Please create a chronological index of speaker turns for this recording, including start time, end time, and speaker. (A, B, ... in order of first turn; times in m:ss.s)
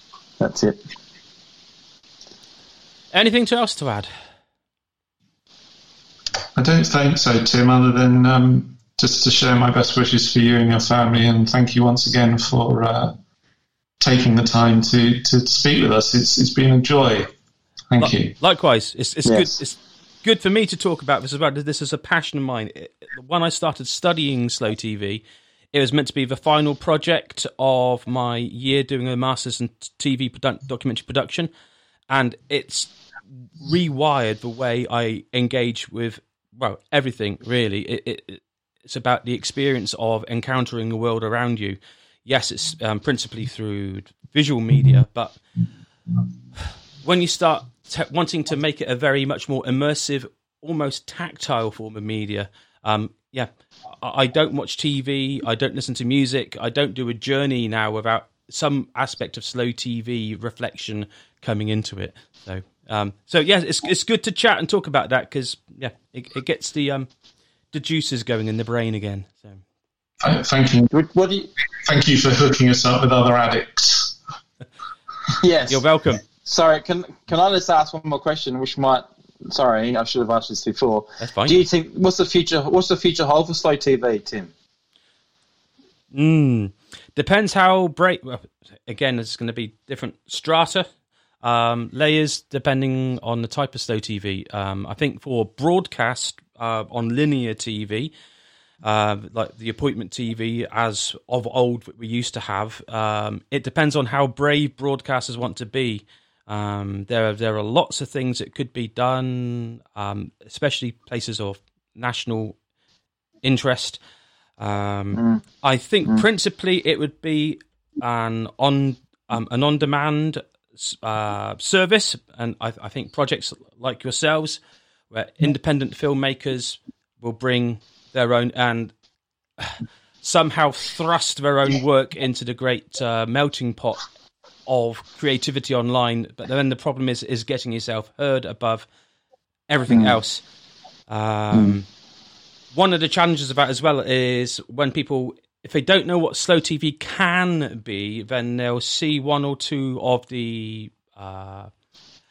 0:00.4-0:00.8 A
0:03.1-0:04.1 B
0:06.5-0:13.1 C
0:14.0-0:17.3 C
0:17.9-0:18.3 C
0:18.0-0:31.5 B
0:19.2-0:19.6 A
0:32.1-0:32.9 B
0:33.6-0:45.4 B
0:47.0-1:07.1 B
1:07.7-1:09.6 B
1:10.2-1:10.9 C
1:10.9-1:11.5 A
1:11.8-1:14.1 C
1:15.4-1:15.8 A
1:15.7-1:16.2 B
1:16.3-1:24.5 A
1:21.2-1:21.6 B
1:26.1-1:30.8 B
1:31.4-1:38.1 B
1:38.8-1:52.6 B
1:53.4-1:54.0 B
1:54.6-2:08.9 B
1:55.1-1:55.4 A
2:09.6-2:14.0 B
2:14.6-2:18.8 B
2:19.7-2:20.4 B
2:19.9-2:20.2 A
2:21.1-2:21.8 B
2:21.5-2:21.8 A
2:22.7-2:31.7 B